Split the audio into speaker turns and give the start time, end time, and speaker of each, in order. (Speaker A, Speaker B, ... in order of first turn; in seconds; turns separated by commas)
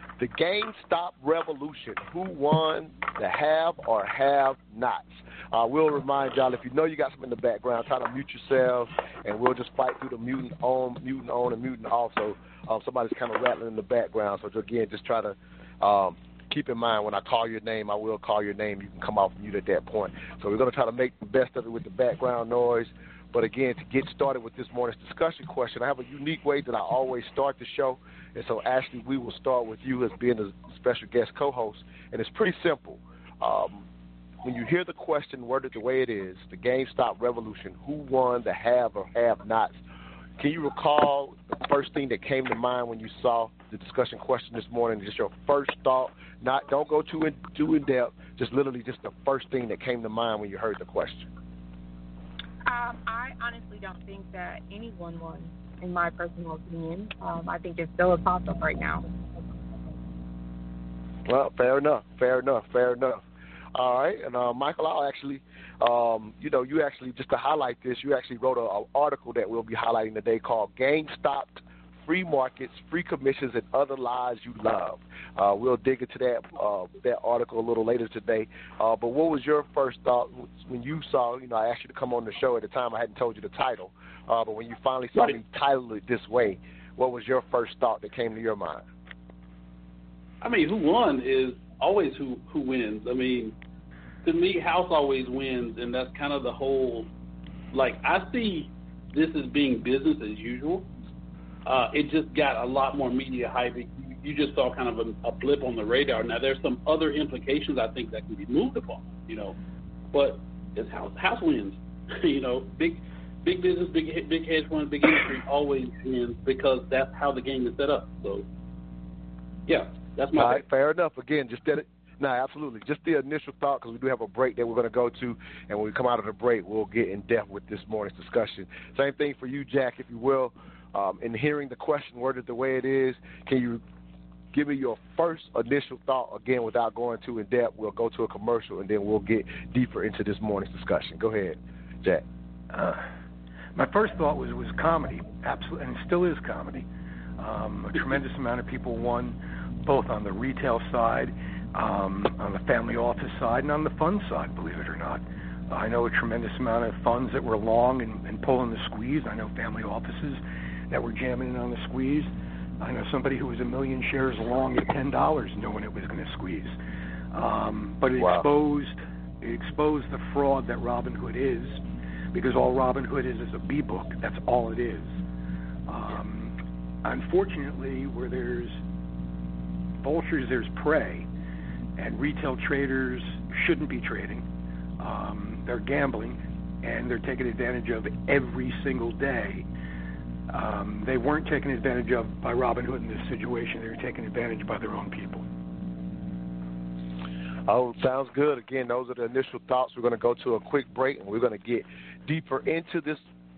Speaker A: 0.2-33.8, Speaker A: 34.4-39.7, Speaker A: 40.4-51.3, Speaker B: 52.6-59.0, Speaker A: 61.3-63.2, Speaker A: 63.7-88.8, Speaker C: 90.4-93.5, Speaker C: 94.2-97.1, Speaker C: 97.7-100.9, Speaker C: 101.6-109.5, Speaker C: 110.1-118.4, Speaker C: 119.7-120.6, Speaker A: 120.3-133.8, Speaker A: 134.5-142.2, Speaker D: 142.7-143.1, Speaker D: 143.7-146.8, Speaker D: 147.4-166.8, Speaker D: 167.3-171.8, Speaker A: 168.2-168.4, Speaker D: 172.3-175.2, Speaker D: 175.9-178.8, Speaker D: 180.0-181.2, Speaker D: 182.0-184.4, Speaker D: 185.0-189.7, Speaker D: 190.5-195.4, Speaker A: 197.7-203.2